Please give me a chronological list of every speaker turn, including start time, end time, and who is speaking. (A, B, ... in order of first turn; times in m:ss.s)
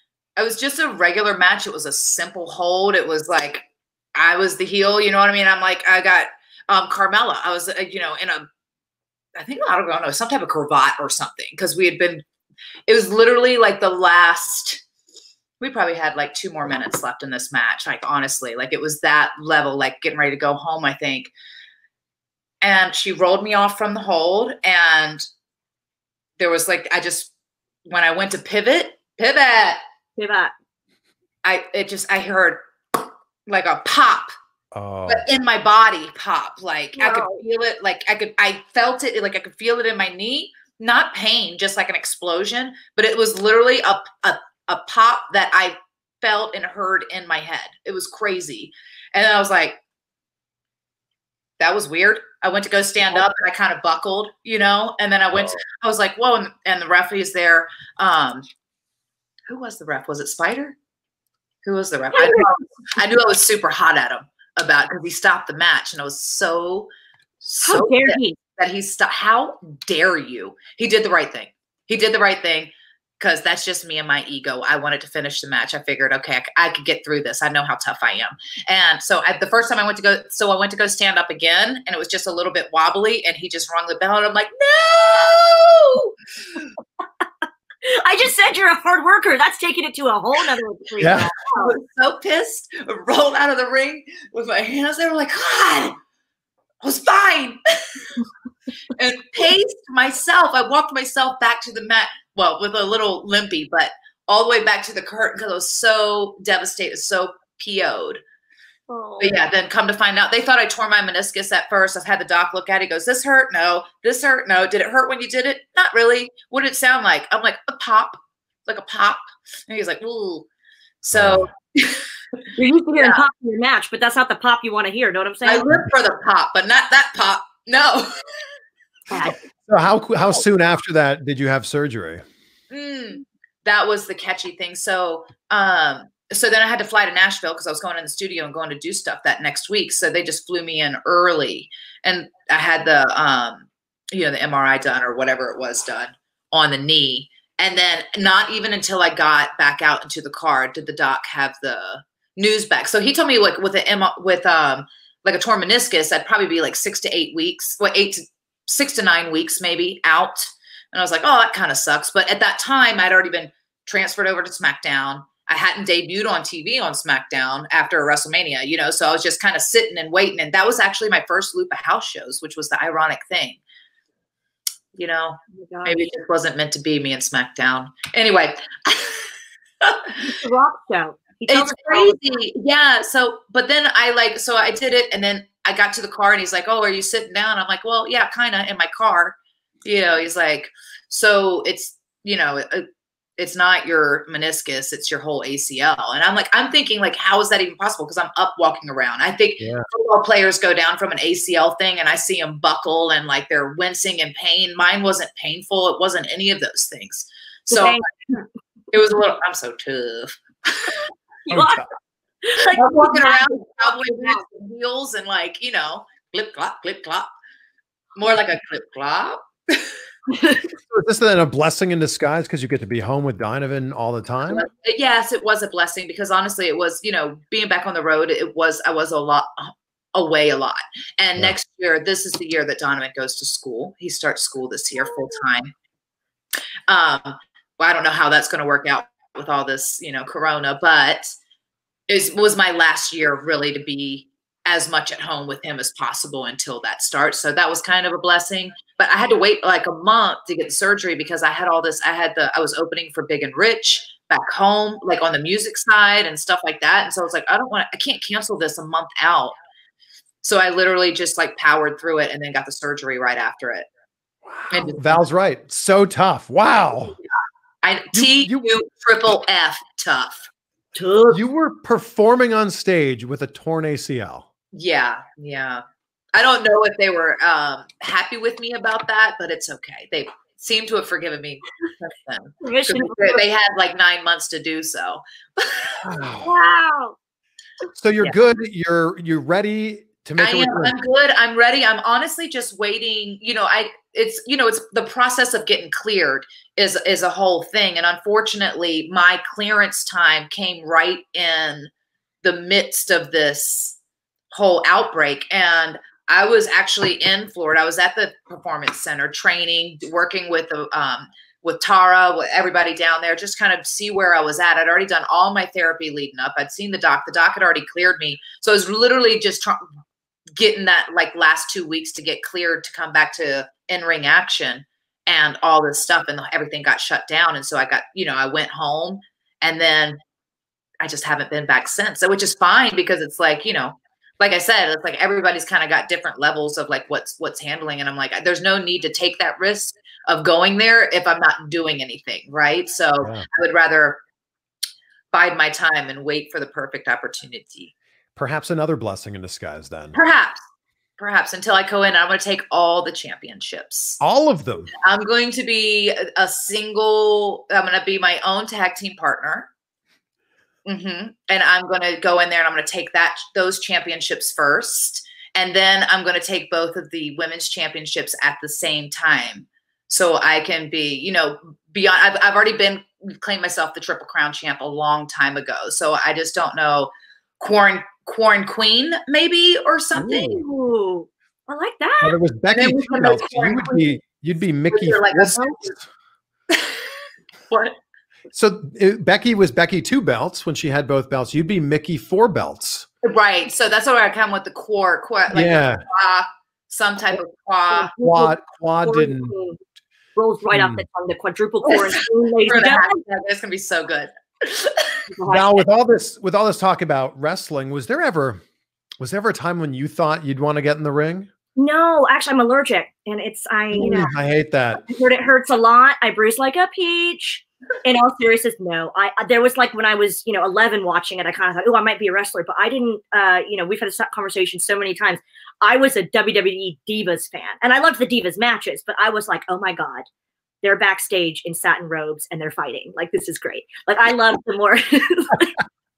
0:00.4-0:08.5 A
0:09.4-0:12.2 A
0:12.9-0:14.8 A
0:15.6-0:21.3 A
0:22.6-0:25.2 A
0:26.4-0:27.3 A
0:27.9-0:29.8 A
0:30.2-0:30.5 B
0:31.4-0:34.3 A
0:34.7-0:35.3 C
0:35.1-0:49.8 A
0:37.0-0:37.4 B
0:51.6-0:58.4 A
0:59.5-1:00.8 A
1:01.6-1:06.9 A
1:02.1-1:02.6 B
1:07.4-1:26.1 A
1:07.6-1:08.4 B
1:27.8-1:31.8 B
1:31.0-1:31.3 C
1:31.6-1:36.0 A
1:36.8-1:38.2 A
1:38.9-1:48.2 A
1:48.9-1:49.4 B
1:49.2-2:00.5 A
2:01.0-2:02.1 A
2:01.1-2:01.5 C
2:02.6-2:05.7 B
2:05.4-2:08.2 A
2:09.1-2:09.4 B
2:09.7-2:12.2 C
2:12.7-2:53.6 A
2:55.0-2:59.3 A
2:55.5-2:56.0 B
2:59.8-3:00.4 A
3:00.2-3:02.3 B
3:01.5-3:12.9 A
3:13.4-3:28.0 A
3:19.6-3:19.9 C
3:27.7-3:28.4 B
3:28.9-3:31.0 A
3:31.5-3:31.8 B
3:31.5-3:31.9 C
3:32.4-3:34.4 B
3:32.7-3:37.3 A
3:38.2-3:39.9 A
3:40.3-3:40.6 B
3:40.8-3:44.7 C
3:44.5-3:55.7 A
3:56.9-4:01.3 A
4:02.1-4:19.6 A
4:20.4-4:23.9 A
4:24.5-4:27.2 C
4:24.7-4:25.2 A
4:27.8-4:30.5 A
4:28.1-4:28.7 C
4:31.0-4:31.4 B
4:31.3-4:34.5 C
4:34.7-4:35.8 A
4:36.3-4:46.0 A
4:42.6-4:43.4 B
4:46.0-4:46.5 C
4:46.4-4:47.2 B
4:48.0-4:51.0 C
4:50.4-5:01.9 A
5:02.4-5:04.0 A
5:04.5-5:19.8 A
5:20.6-5:30.2 A
5:31.0-5:44.2 A
5:45.3-5:47.9 A
5:48.4-5:50.2 C
5:50.1-5:50.6 A
5:51.2-5:54.2 A
5:54.2-5:54.9 C
5:55.0-5:59.7 A
6:00.9-6:20.6 A
6:20.2-6:20.6 C
6:20.3-6:22.4 B
6:22.2-6:26.0 C
6:22.7-6:24.1 A
6:24.9-6:26.0 A
6:26.7-6:27.0 A
6:27.7-6:28.0 A
6:28.5-6:33.1 C
6:33.2-6:38.1 A
6:35.5-6:36.0 C
6:37.9-6:39.8 B
6:38.2-6:39.5 C
6:40.4-6:43.2 B
6:40.7-6:41.0 C
6:41.9-6:45.2 A
6:45.3-6:45.8 B
6:45.5-6:48.6 C
6:49.2-6:51.5 C
6:51.8-6:54.4 B
6:53.9-6:55.0 C
6:55.1-7:10.3 B
7:10.8-7:15.8 B